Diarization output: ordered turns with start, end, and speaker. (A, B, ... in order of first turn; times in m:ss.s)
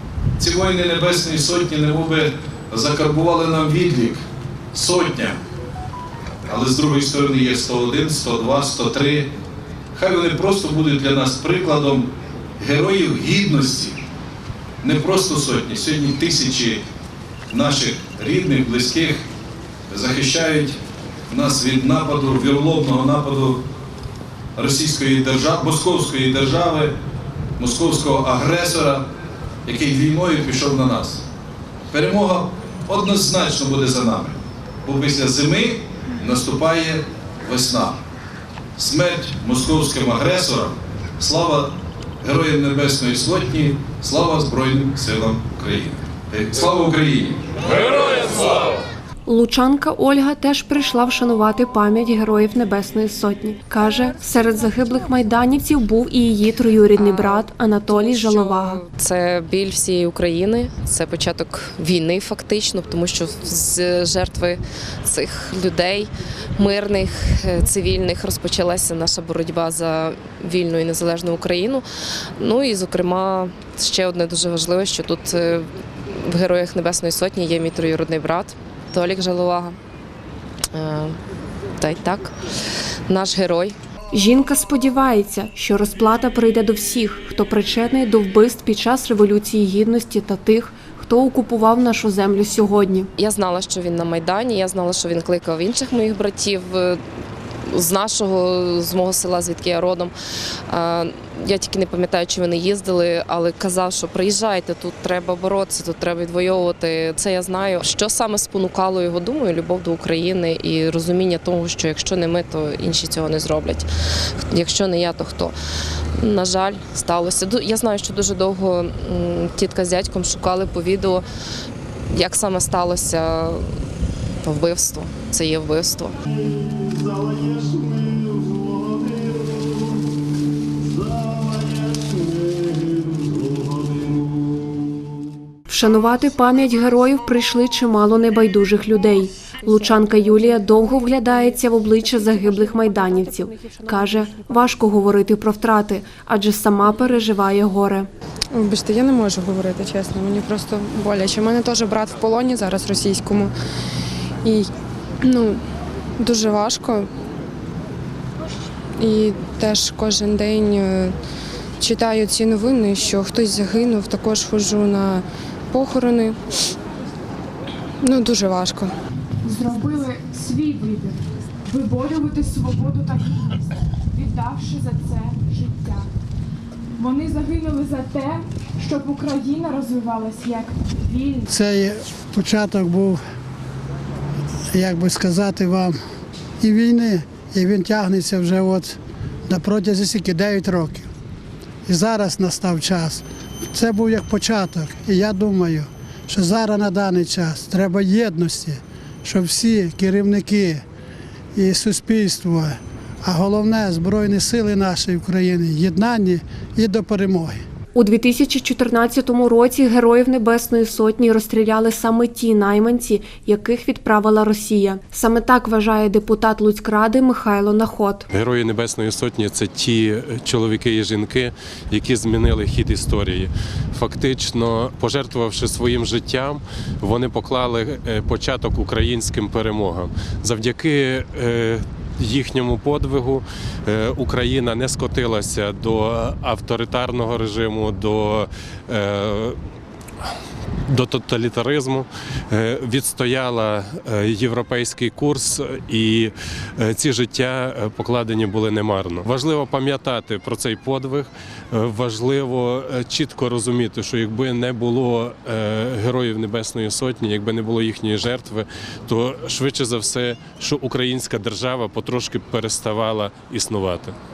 0:00.4-0:04.2 A
0:04.7-0:05.4 A
0:06.5-0:09.3 A
0:09.9-0:12.1 A
0:12.6-0:14.0 A
0:14.8-0:16.8 A
0:17.5-0:19.2 A
0:19.9-0:20.8 A
0:21.3-0:23.6 A
0:24.6-0:26.9 A
0:27.6-0:29.0 A
0:29.6-0:31.2 A
0:31.9-0:38.0 A
0:38.8-0:41.7 A
0:42.2-0:48.3 A
0:49.2-0:58.8 B
0:57.0-1:11.8 C
1:12.4-1:19.8 C
1:20.7-1:21.2 C
1:21.8-1:22.3 C
1:23.1-1:23.8 C
1:24.1-1:33.1 B
1:33.2-1:37.0 C
1:37.6-1:40.1 C
1:40.7-1:53.9 C
1:54.5-1:55.5 C
1:56.2-2:01.3 C
2:02.1-2:03.7 C
2:04.4-2:06.1 C
2:15.7-2:28.1 B
2:28.5-2:33.5 D
2:34.4-2:34.7 D
2:35.2-2:35.6 D
2:36.2-2:37.1 D
2:39.0-2:41.1 D
2:41.8-2:46.4 D
2:48.0-2:48.9 D
2:49.4-2:56.1 E
2:57.0-3:01.4 E
3:01.5-3:03.2 F
3:04.7-3:06.0 F
3:06.6-3:11.1 F
3:11.9-3:20.8 F
3:21.5-3:27.6 F
3:27.9-3:38.3 B
3:38.3-3:59.6 G
4:00.9-4:24.1 G